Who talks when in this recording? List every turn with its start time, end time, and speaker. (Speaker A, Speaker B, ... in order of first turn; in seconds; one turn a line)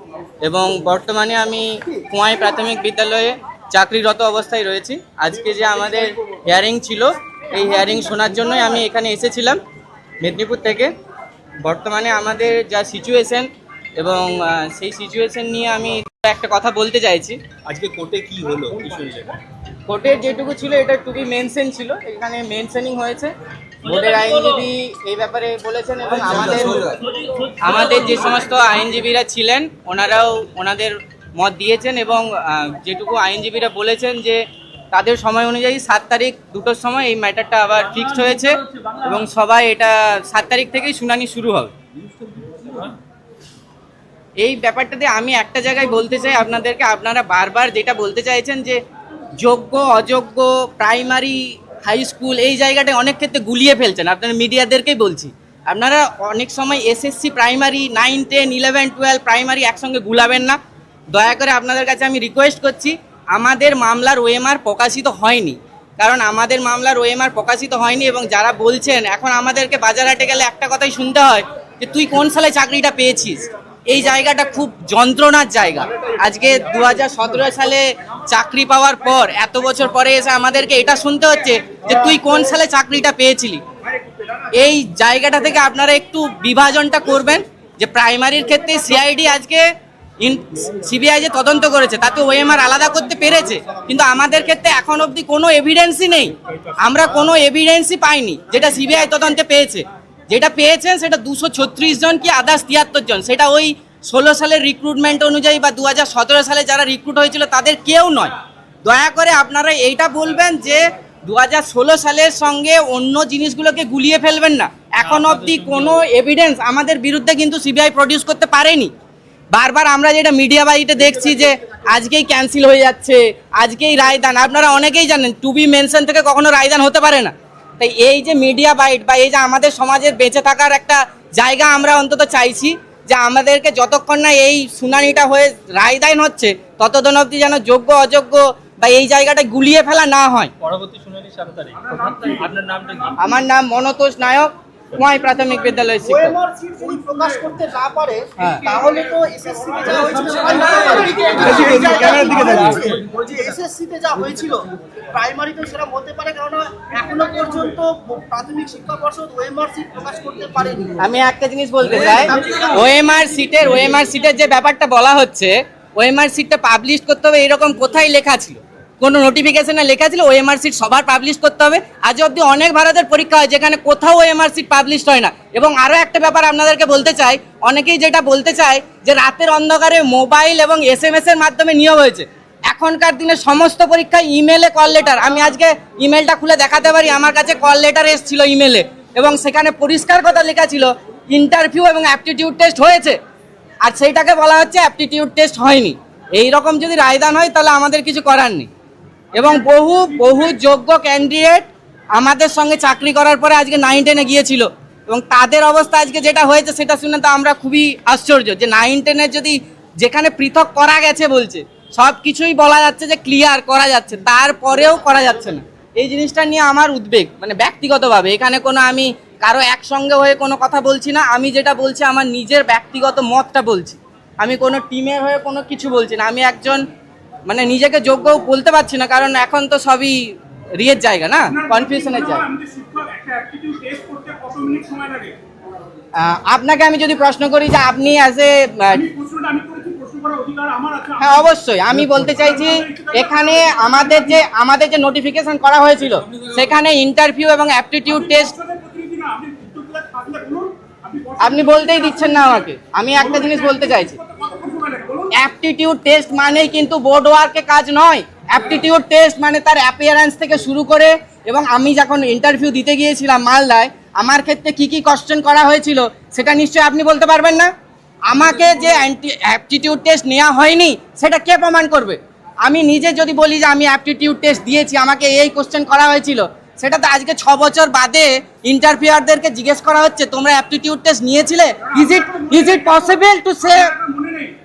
Speaker A: 0.4-9.6
Speaker A: 10.2-10.9
Speaker A: 11.6-17.4
Speaker B: 17.7-19.3
Speaker A: 19.9-23.3
Speaker A: 23.8-27.0
Speaker A: 27.6-34.4
Speaker A: 34.9-41.7
Speaker A: 44.4-48.8
Speaker A: 49.4-60.6
Speaker A: 61.1-83.6
Speaker A: 84.5-89.6
Speaker A: 90.2-108.3
Speaker A: 108.8-118.9
Speaker A: 119.5-140.5
Speaker B: 140.6-143.1
Speaker A: 143.2-146.4
Speaker C: 146.0-161.0
Speaker A: 148.4-148.6
Speaker D: 151.3-151.9
Speaker A: 161.0-193.2
Speaker C: 162.0-162.8
Speaker A: 193.8-198.7
Speaker A: 199.3-226.8
Speaker A: 227.5-230.2
Speaker A: 230.8-232.4
Speaker D: 231.8-235.3
Speaker A: 236.2-239.0
Speaker D: 239.1-241.2
Speaker A: 241.2-248.5
Speaker D: 242.9-244.2
Speaker D: 248.5-252.6
Speaker A: 251.4-254.2
Speaker D: 253.4-255.3
Speaker A: 255.3-267.7
Speaker A: 268.3-283.9
Speaker D: 282.1-283.0
Speaker D: 283.9-284.5